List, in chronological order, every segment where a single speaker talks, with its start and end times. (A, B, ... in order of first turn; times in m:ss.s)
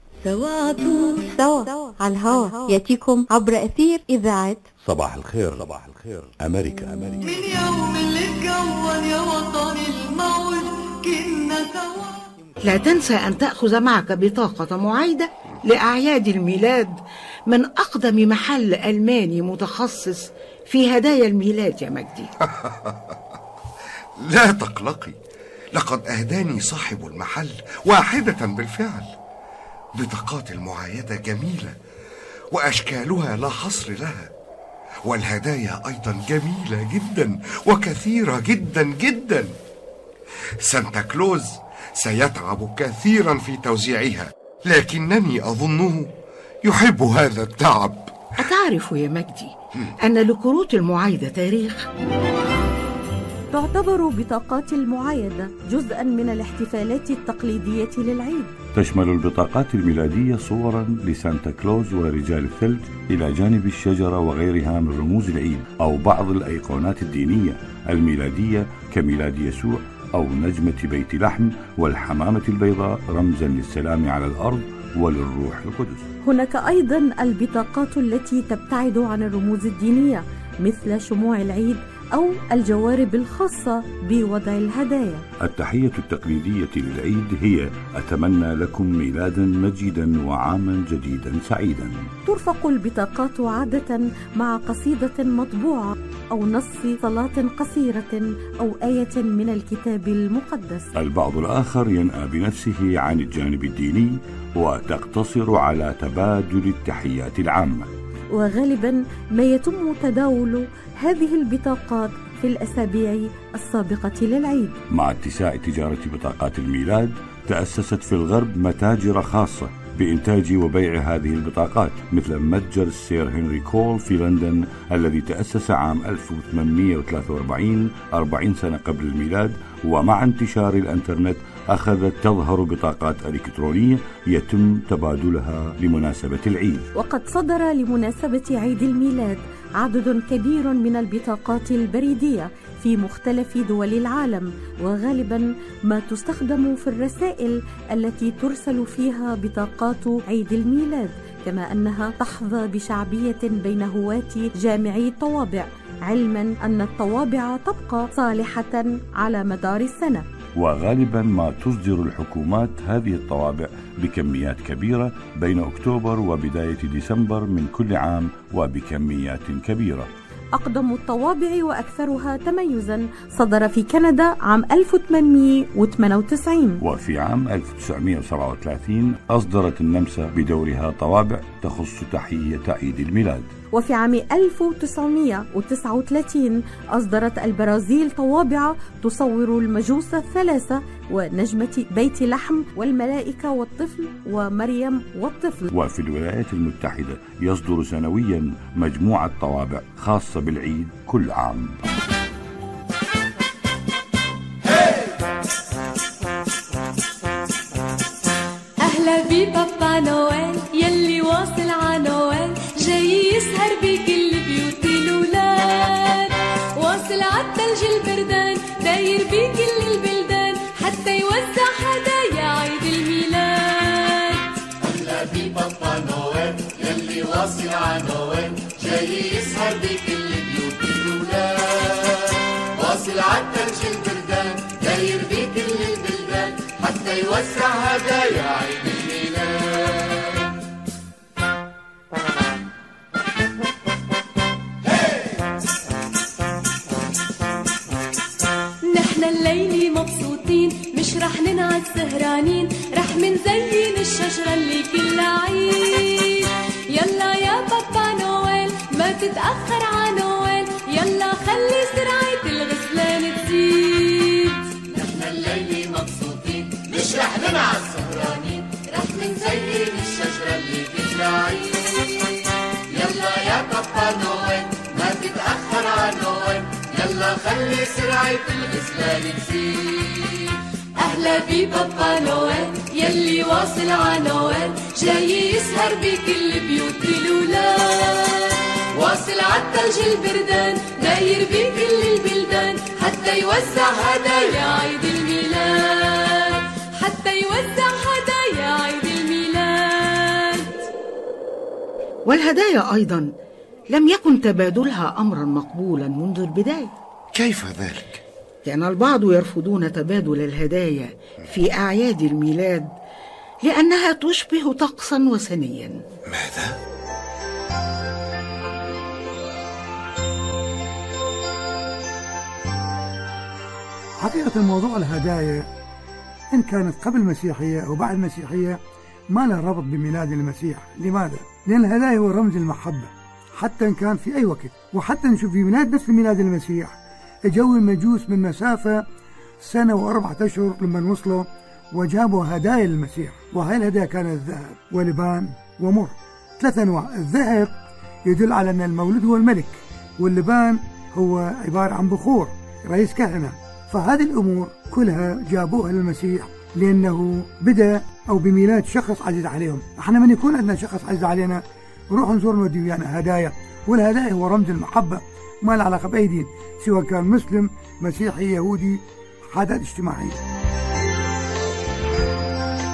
0:00.2-0:01.3 A
0:01.4-0:04.7 B
0:04.8-0:07.2 C
0:07.2-0:12.3 A
0:12.6-0:22.3 D
0:22.5-0:23.1 E
0:24.2-0:25.2 E
0:25.7-0:29.1 E
0:30.0-0:31.8 E
0:32.5-0:34.3 E
0:35.1-0:39.5 E
0:40.6-0:46.1 E
0:46.6-0:48.1 E
0:48.4-0:51.8 D
0:53.5-0:58.5 F
0:58.8-1:16.0 C
1:16.2-1:25.2 F
1:25.4-1:32.1 C
1:32.2-1:40.9 F
1:40.9-1:47.9 C
1:48.3-1:54.8 F
1:54.9-2:16.8 C
2:17.0-2:40.3 F
2:40.6-2:50.1 C
2:50.6-2:56.8 F
2:56.8-3:03.5 C
3:03.7-3:15.6 F
3:15.7-3:21.8 C
3:28.9-3:36.3 G
3:36.8-3:44.2 G
3:44.8-3:52.2 H
3:52.8-3:59.9 H
4:08.9-4:16.2 G
4:17.0-4:24.5 G
4:24.9-4:31.8 H
4:32.9-4:40.3 H
4:41.0-4:47.7 G
4:49.1-4:56.4 G
4:57.0-5:00.7 G
5:02.3-5:03.3 D
5:03.9-5:06.9 D
5:07.4-5:08.2 E
5:08.6-5:12.9 D
5:13.6-5:16.0 D
5:16.3-5:16.8 E
5:24.2-5:25.6 I
5:26.5-5:28.8 I
5:29.3-5:37.0 I
5:37.5-5:39.0 I
5:39.6-5:47.7 I
5:48.3-6:01.6 I
6:02.1-6:09.0 I
6:09.5-6:10.4 I